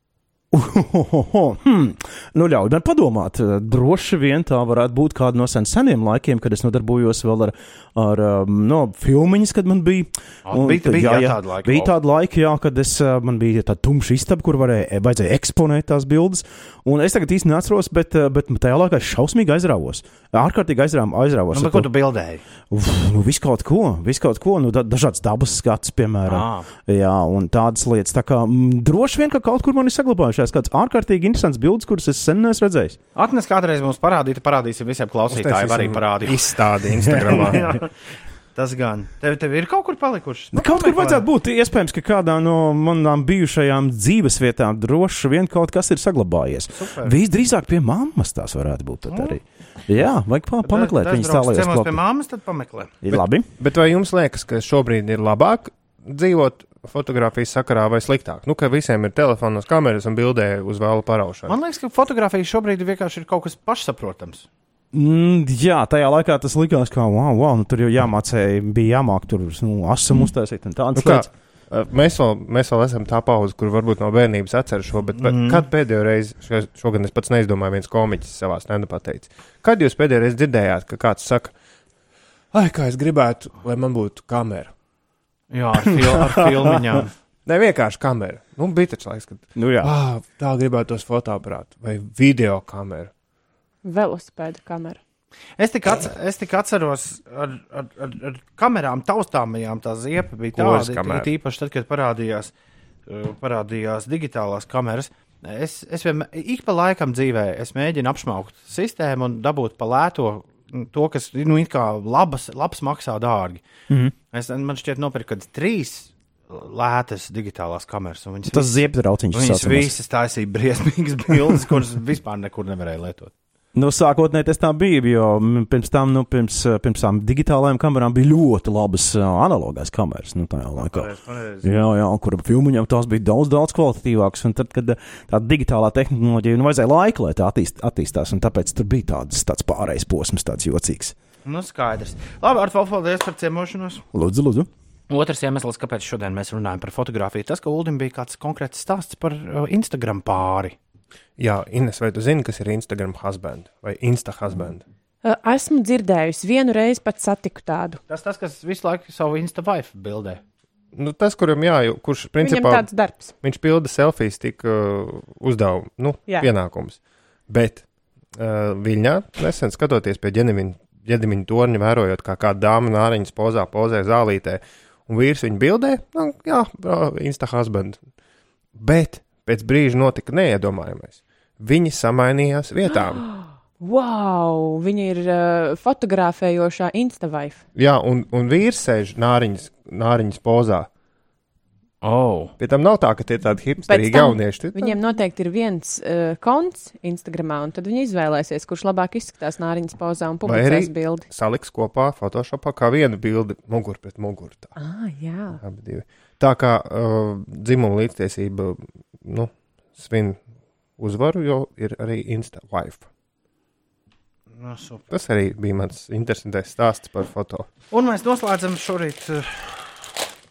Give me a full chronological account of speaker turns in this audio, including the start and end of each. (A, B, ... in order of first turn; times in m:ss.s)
0:00.5-0:21.9 A
0:10.4-0:11.9 B
0:21.5-0:22.4 B
0:22.7-0:33.0 A
0:26.3-0:26.7 B
0:33.1-0:37.9 B
0:35.3-0:37.8 C
0:38.5-0:41.3 B
0:40.5-0:52.0 A
0:46.7-0:47.2 B
0:49.1-0:49.4 B
0:50.6-0:53.0 B
0:53.0-0:53.5 A
0:53.1-1:01.6 C
1:01.5-1:04.5 B
1:04.9-1:11.3 A
1:10.9-1:21.5 C
1:15.2-1:15.6 B
1:22.5-1:24.7 C
1:25.5-1:27.1 B
1:27.4-1:33.1 C
1:29.6-1:29.9 A
1:33.8-1:35.0 D
1:35.6-1:42.5 B
1:40.5-1:41.3 C
1:43.1-1:53.7 B
1:53.9-1:54.1 A
1:54.3-1:58.8 B
1:58.5-1:59.9 A
1:59.3-2:03.3 B
2:03.7-2:21.1 A
2:11.0-2:11.6 B
2:21.4-2:24.0 B
2:24.1-2:24.7 A
2:25.1-2:30.7 B
2:31.4-2:34.8 C
2:35.2-2:38.0 D
2:38.1-2:40.4 B
2:40.9-2:42.9 C
2:42.4-2:43.3 D
2:43.4-2:58.0 C
2:58.7-3:03.3 C
3:03.2-3:07.6 D
3:07.7-3:10.9 C
3:12.0-3:12.5 B
3:12.6-3:15.0 C
3:13.9-3:21.3 D
3:20.4-3:24.7 C
3:24.8-3:25.6 D
3:25.5-3:30.4 C
3:31.0-3:33.0 C
3:34.5-3:35.1 B
3:35.1-3:37.7 C
3:37.9-3:40.1 B